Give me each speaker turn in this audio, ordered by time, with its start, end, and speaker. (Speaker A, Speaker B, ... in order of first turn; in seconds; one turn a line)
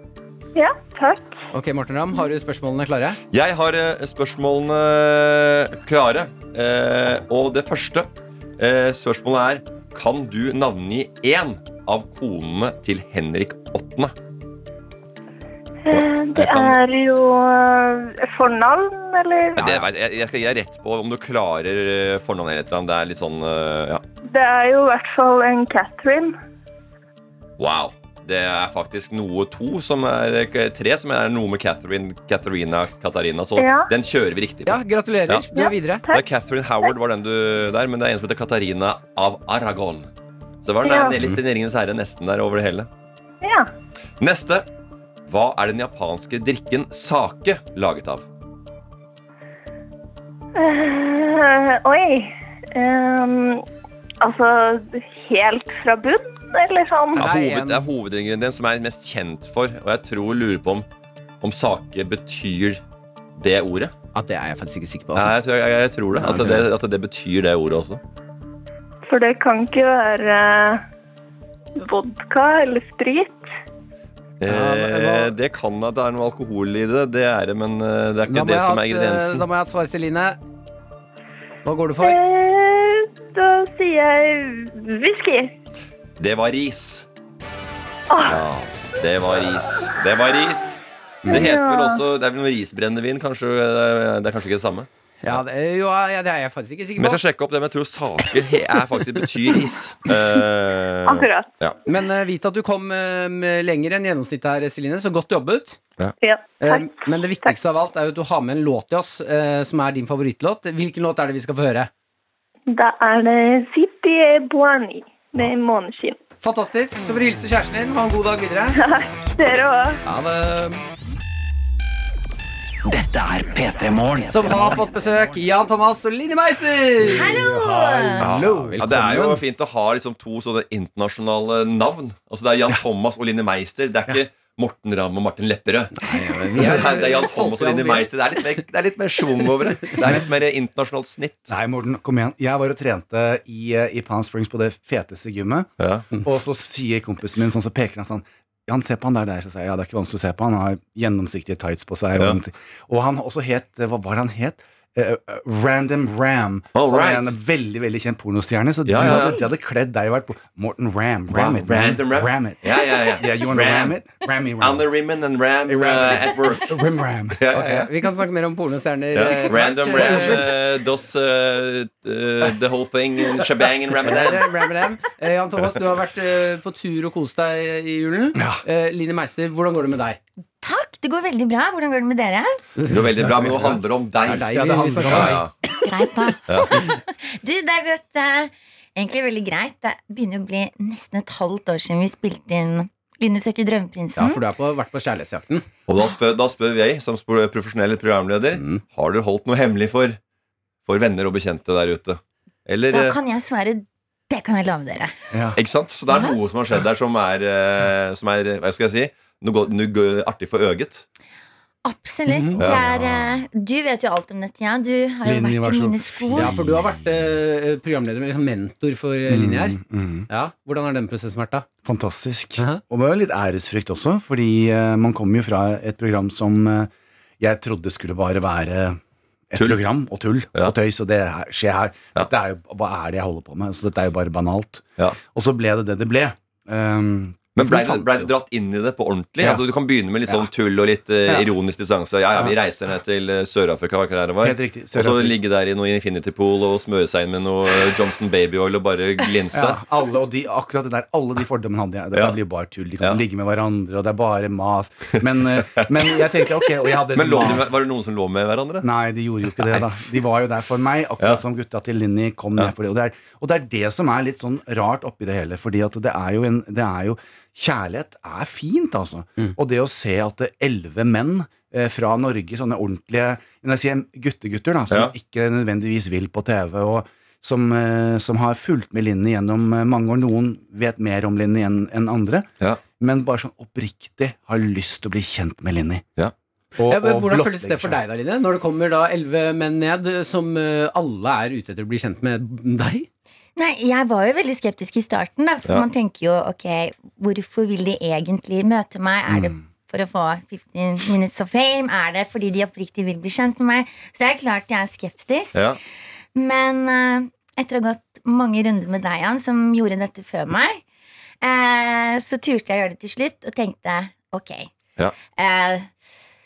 Speaker A: 0.6-1.4
Speaker B: 1.5-3.2
Speaker C: 3.3-14.2
Speaker A: 15.8-19.8
Speaker C: 15.9-16.8
Speaker C: 19.6-24.0
Speaker A: 24.3-26.4
Speaker C: 27.6-35.5
Speaker A: 33.6-33.9
Speaker B: 34.7-36.0
Speaker A: 35.5-36.2
Speaker C: 36.1-40.1
Speaker C: 40.6-42.9
Speaker A: 40.8-41.2
Speaker A: 43.4-43.7
Speaker C: 44.2-44.7
Speaker C: 45.3-48.3
Speaker A: 50.5-53.6
Speaker A: 54.2-57.2
Speaker B: 57.1-57.9
Speaker C: 57.1-60.9
Speaker C: 61.4-62.8
Speaker C: 63.4-63.9
Speaker B: 64.1-65.4
Speaker C: 65.2-68.0
Speaker B: 66.2-66.7
Speaker A: 69.1-70.8
Speaker A: 71.8-73.5
Speaker C: 74.4-79.5
Speaker B: 74.5-75.3
Speaker B: 78.3-80.4
Speaker B: 81.7-82.2
Speaker A: 82.0-85.5
Speaker C: 86.2-87.1
Speaker A: 88.1-88.4
Speaker C: 88.3-95.4
Speaker B: 91.2-91.5
Speaker A: 91.3-92.0
Speaker B: 95.2-97.2
Speaker C: 97.0-101.8
Speaker A: 101.1-101.5
Speaker B: 101.9-105.8
Speaker A: 106.2-107.5
Speaker B: 106.6-111.9
Speaker A: 112.7-116.2
Speaker B: 116.4-118.8
Speaker A: 118.7-120.0
Speaker B: 120.0-120.8
Speaker D: 122.9-124.9
Speaker B: 124.3-127.4
Speaker E: 127.0-128.9
Speaker F: 127.0-128.2
Speaker C: 128.2-136.0
Speaker B: 128.3-129.4
Speaker B: 136.0-138.1
Speaker C: 136.5-141.5
Speaker E: 140.0-140.3
Speaker E: 141.5-145.7
Speaker C: 145.8-146.1
Speaker E: 146.2-164.9
Speaker C: 156.7-157.3
Speaker C: 158.9-159.4
Speaker C: 161.3-164.0
Speaker C: 164.6-167.9
Speaker E: 165.7-167.6
Speaker B: 167.5-170.5
Speaker C: 169.1-174.5
Speaker B: 174.0-180.2
Speaker E: 178.4-178.6
Speaker F: 180.6-182.6
Speaker B: 182.8-183.0
Speaker C: 182.9-185.5
Speaker B: 184.3-185.4
Speaker E: 184.5-185.5
Speaker F: 185.8-194.4
Speaker C: 186.5-186.8
Speaker B: 194.2-195.7
Speaker C: 195.9-200.2
Speaker B: 198.5-198.8
Speaker C: 200.9-203.2
Speaker F: 202.9-205.2
Speaker E: 205.3-205.6
Speaker C: 205.6-211.1
Speaker F: 206.1-206.4
Speaker F: 211.8-216.6
Speaker E: 212.5-212.8
Speaker C: 212.6-213.3
Speaker E: 215.2-216.9
Speaker B: 216.3-221.7
Speaker E: 219.3-220.3
Speaker E: 221.8-229.0
Speaker E: 229.5-238.3
Speaker C: 237.6-249.8
Speaker E: 244.4-245.4
Speaker E: 249.5-257.7
Speaker C: 257.1-258.9
Speaker E: 258.8-282.5
Speaker C: 259.6-260.1
Speaker E: 283.0-286.0
Speaker E: 286.8-288.0
Speaker B: 286.9-293.1
Speaker F: 293.6-305.7
Speaker E: 299.3-299.6
Speaker C: 305.5-305.8
Speaker F: 306.4-310.8
Speaker F: 311.4-314.7
Speaker F: 315.4-315.9